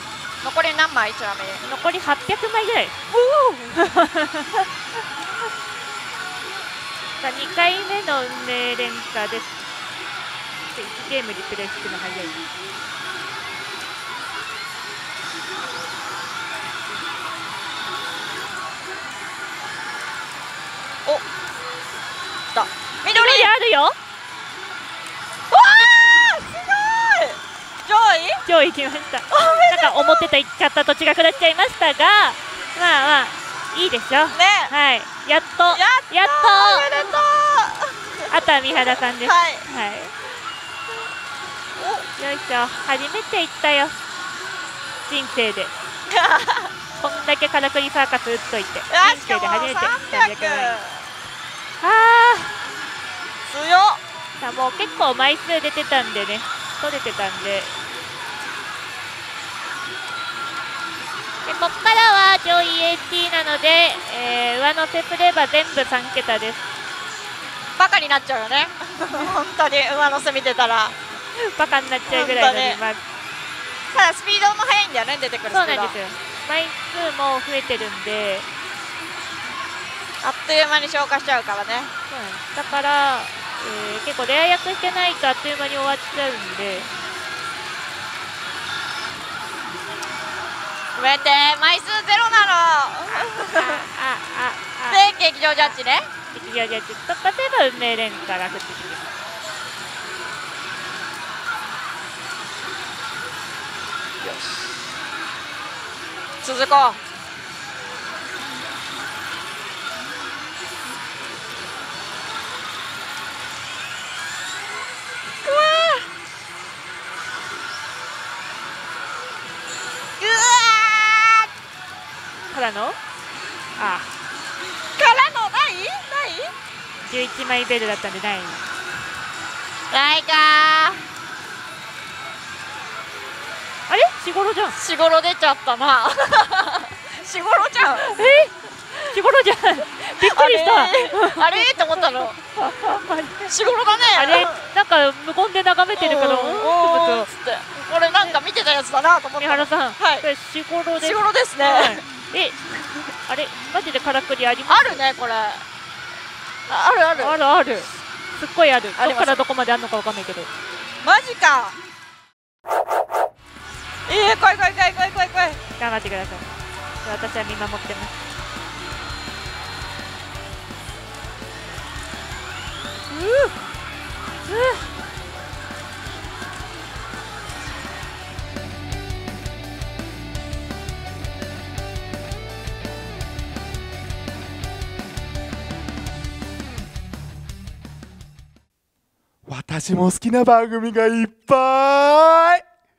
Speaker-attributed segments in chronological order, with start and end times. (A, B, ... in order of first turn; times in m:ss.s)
0:00.4-0:01.6 A
0:01.6-0:03.0 B
0:03.1-0:03.6 A
0:03.7-0:04.6 B
0:07.2-0:09.6 B
0:10.7-0:12.4 B
0:22.5-0:23.5 A
0:23.1-0:24.0 B
0:25.5-0:28.4 A
0:28.5-0:37.2 B
0:29.3-0:30.0 A
0:34.3-0:34.7 A
0:35.7-0:39.6 A
0:38.3-0:40.1 B
0:41.8-0:42.1 A
0:42.2-0:44.0 B
0:45.1-0:45.7 B
0:46.1-0:46.7 A
0:47.0-0:50.8 B
0:48.9-0:51.1 A
0:51.8-0:52.6 B
0:53.5-0:54.0 A
0:54.4-0:57.7 B
1:01.5-1:06.6 B
1:07.8-1:11.0 A
1:11.4-1:13.0 B
1:12.1-1:12.8 A
1:13.9-1:16.0 A
1:15.5-1:18.5 B
1:20.2-1:21.9 A
1:22.1-1:26.9 B
1:31.0-1:33.8 A
1:33.1-1:35.8 B
1:34.9-1:36.1 A
1:36.3-1:39.1 B
1:44.2-1:45.0 A
1:46.4-1:47.0 A
1:55.4-1:56.1 A
2:00.2-2:01.5 A
2:02.5-2:03.0 B
2:03.8-2:04.1 B
2:05.0-2:06.5 A
2:07.0-2:08.6 B
2:09.9-2:11.0 A
2:13.9-2:14.8 B
2:14.7-2:18.1 A
2:18.0-2:23.5 B
2:20.2-2:22.4 A
2:23.5-2:24.6 A
2:24.2-2:27.3 B
2:26.0-2:30.3 A
2:29.4-2:32.6 B
2:31.0-2:32.0 A
2:33.3-2:35.0 B
2:34.7-2:35.6 A
2:36.7-2:37.4 A
2:37.2-2:40.5 B
2:39.0-2:39.4 A
2:41.0-2:41.8 A
2:44.1-2:45.6 A
2:45.8-2:46.4 B
2:47.0-2:48.1 B
2:53.1-2:53.5 A
2:54.4-2:54.9 B
3:09.5-3:12.6 C